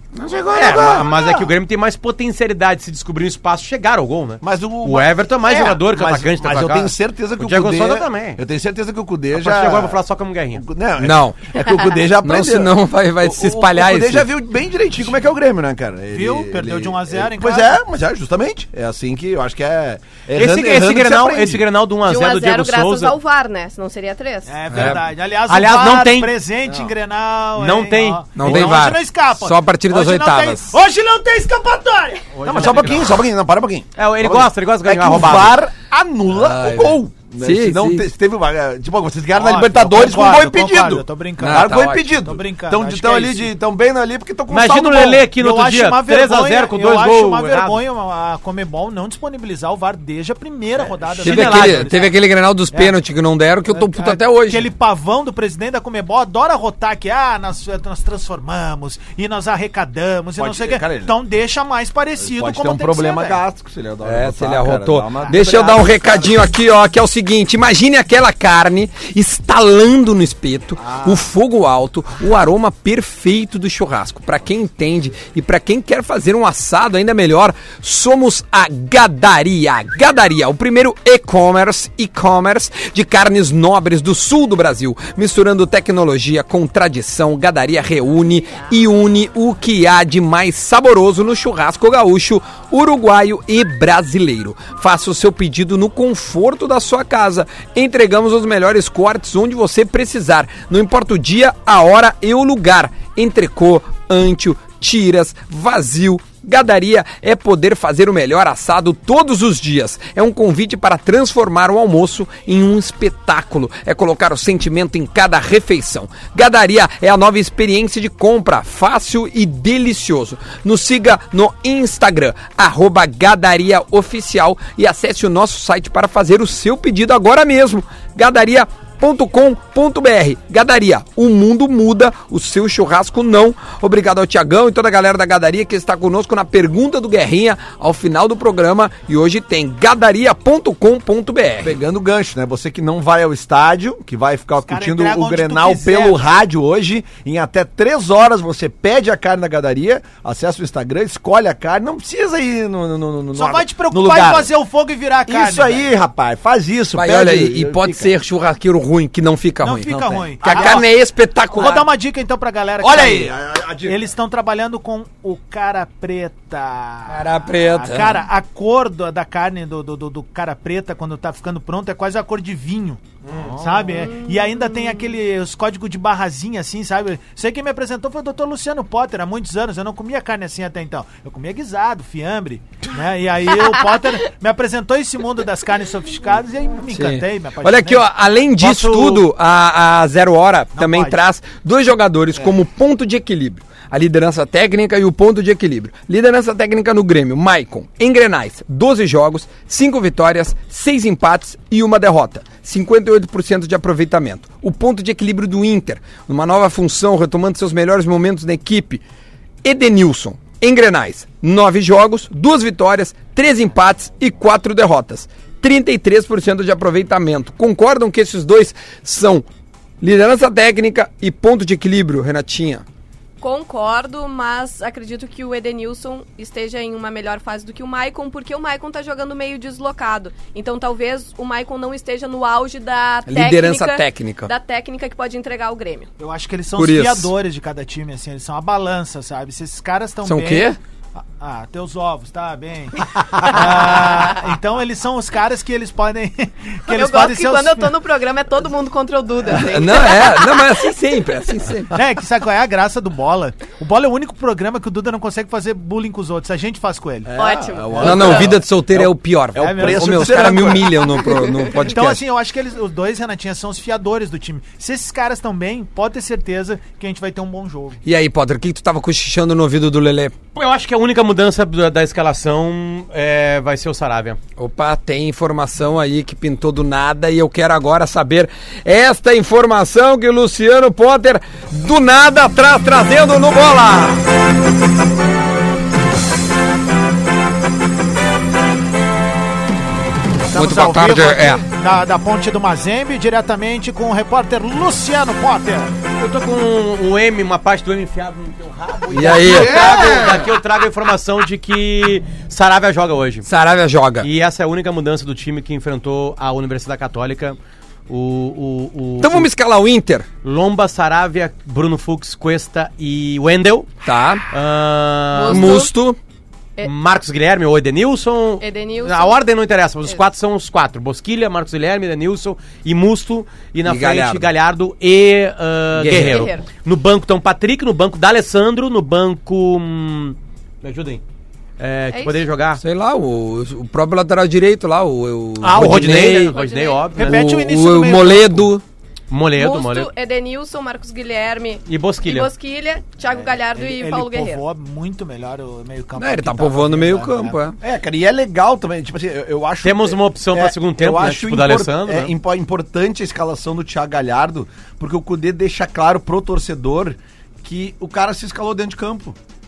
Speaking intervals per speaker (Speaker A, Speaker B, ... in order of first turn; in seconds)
Speaker A: 0.2-1.1, 11.0-11.5, 12.2-14.3, 24.7-25.0, 28.4-30.7, 36.3-38.1, 41.4-42.1, 51.2-54.6, 64.0-141.8, 156.9-161.9, 167.1-168.2, 186.9-209.0, 209.6-219.4, 220.0-222.8, 233.3-234.5, 236.8-237.3, 240.2-240.8, 249.5-251.9, 258.0-262.2, 268.0-270.3, 274.6-284.2, 290.5-291.6, 299.1-300.1, 303.4-304.3, 309.2-310.3, 314.0-314.4, 315.5-316.2, 323.8-324.5, 326.0-326.5, 332.8-336.6, 337.2-338.8, 346.2-347.8
Speaker B: 0.3-1.5, 4.4-10.0, 10.5-21.6, 32.4-45.3, 60.4-61.1, 62.2-66.4, 70.8-71.2, 141.6-154.5, 155.3-158.1, 160.4-160.8, 162.8-164.0, 173.2-173.9, 257.3-261.5, 299.6-300.5, 347.8-359.4
Speaker C: 0.5-8.4, 9.3-10.6, 20.4-23.1, 25.5-26.3, 27.6-28.8, 32.3-33.2, 34.0-35.6, 44.5-47.8, 51.1-52.1, 188.6-189.2, 270.5-274.4, 296.2-303.5, 304.2-307.6, 308.1-309.5, 310.4-313.9, 314.5-315.9, 316.8-331.2, 331.8-332.8, 335.6-337.4, 339.3-340.1, 341.9-342.5, 349.8-352.3
Speaker D: 16.1-17.8, 24.5-32.7, 39.3-43.5, 45.4-52.1, 53.7-63.4, 144.6-146.2, 153.3-155.9, 159.6-160.9, 161.5-173.0, 173.6-188.1, 190.7-191.2, 236.2-240.8, 241.4-247.9, 251.9-257.3, 259.6-260.9, 261.7-268.0, 290.5-295.9, 337.1-338.7, 343.3-347.6
Speaker E: 22.0-24.6, 174.1-174.9, 223.4-236.1, 246.9-250.8, 257.4-258.5, 315.3-315.9, 318.6-319.4, 326.1-326.6, 332.1-332.4, 336.1-337.1, 339.6-344.6